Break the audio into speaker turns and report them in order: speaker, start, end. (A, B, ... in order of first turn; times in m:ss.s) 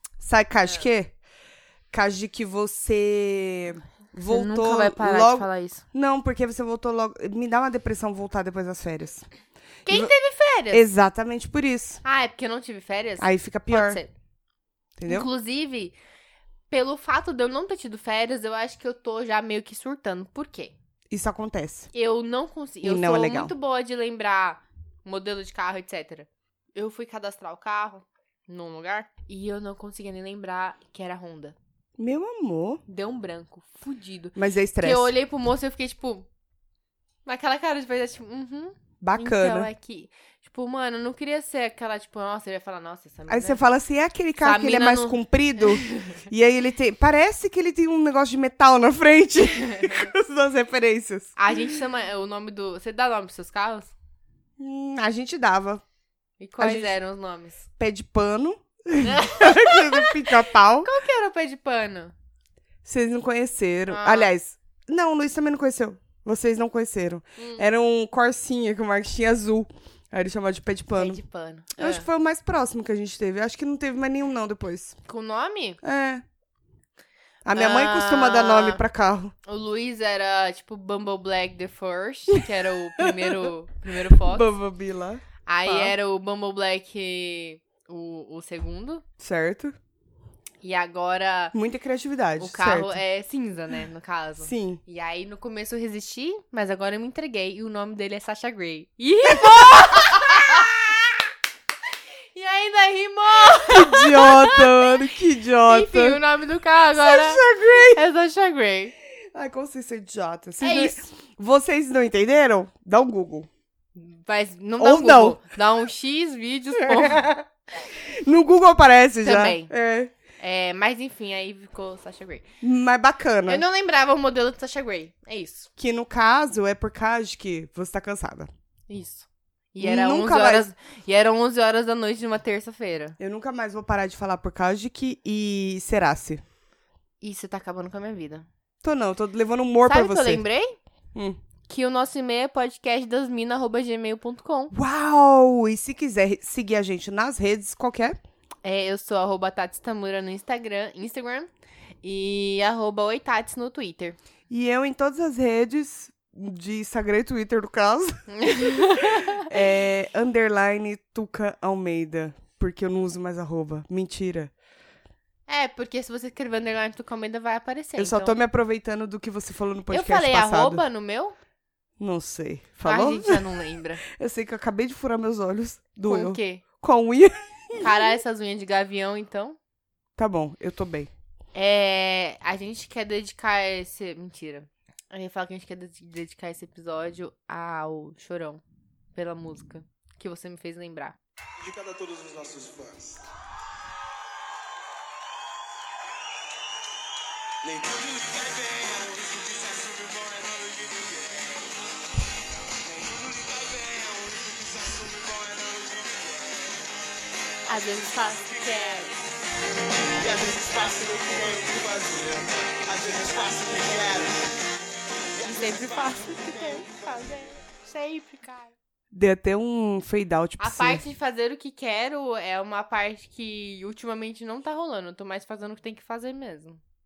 0:00.2-0:01.1 A
0:01.9-0:09.3 A
0:04.3-0:05.8 B
0:09.9-0:10.9 B
0:10.7-0:12.0 A
0:12.0-0:14.1 B
0:13.2-0:14.0 A
0:15.0-0:15.3 A
0:15.1-0:16.0 B
0:16.7-0:20.8 B
0:21.1-0:21.9 A
0:21.9-0:31.6 B
0:22.8-0:23.5 A
0:32.0-0:32.8 A
0:32.9-0:36.3 B
0:34.4-0:35.1 A
0:37.2-0:43.6 B
0:39.0-0:39.7 A
0:43.3-0:51.4 A
0:44.4-0:46.2 B
0:49.8-0:50.1 B
0:51.4-0:53.9 B
0:54.6-0:55.8 A
0:56.4-0:57.6 B
0:56.6-0:56.9 A
0:57.8-1:00.9 A
0:59.0-1:02.1 B
1:02.8-1:11.2 A
1:03.9-1:04.3 B
1:07.4-1:07.7 B
1:11.0-1:12.1 B
1:11.8-1:15.0 A
1:15.1-1:15.8 B
1:15.8-1:16.2 A
1:17.4-1:19.3 A
1:17.5-1:18.8 B
1:19.4-1:24.5 B
1:23.0-1:23.5 A
1:24.2-1:25.9 A
1:25.5-1:29.0 B
1:29.2-1:29.8 A
1:30.6-1:31.5 B
1:31.5-1:33.0 A
1:32.4-1:41.2 B
1:34.4-1:34.8 A
1:42.3-1:45.1 B
1:43.5-1:46.2 A
1:45.6-1:48.9 B
1:47.0-1:48.0 A
1:49.3-1:53.5 A
1:50.6-1:51.0 B
1:54.0-1:57.3 B
1:54.8-1:55.4 A
1:56.8-1:57.4 A
1:58.0-2:00.1 A
1:59.2-1:59.7 B
2:00.4-2:02.4 B
2:02.6-2:03.6 A
2:03.5-2:05.7 B
2:05.8-2:08.5 A
2:08.9-2:13.2 B
2:09.8-2:10.7 A
2:13.2-2:16.4 A
2:17.2-2:18.5 B
2:18.8-2:20.4 A
2:19.9-2:20.8 B
2:21.7-2:24.7 B
2:24.7-2:28.2 A
2:28.6-2:31.5 B
2:32.0-2:34.2 B
2:34.5-2:38.2 A
2:38.3-2:39.5 B
2:39.4-2:44.5 A
2:45.5-2:48.4 B
2:48.0-2:50.8 A
2:49.9-2:51.4 B
2:52.0-2:53.4 A
2:52.8-2:54.0 B
2:54.0-2:58.0 A
2:56.0-2:56.6 B
2:57.8-2:59.6 B
3:00.2-3:01.1 A
3:01.5-3:08.6 B
3:09.2-3:11.2 B
3:11.6-3:13.2 C
3:17.6-3:21.7 C
3:22.8-3:26.7 C
3:27.7-3:29.1 B
3:27.7-3:29.2 C
3:30.2-3:34.5 C
3:35.3-3:37.2 C
3:35.4-3:38.7 B
3:39.1-3:41.0 A
3:40.6-3:46.8 B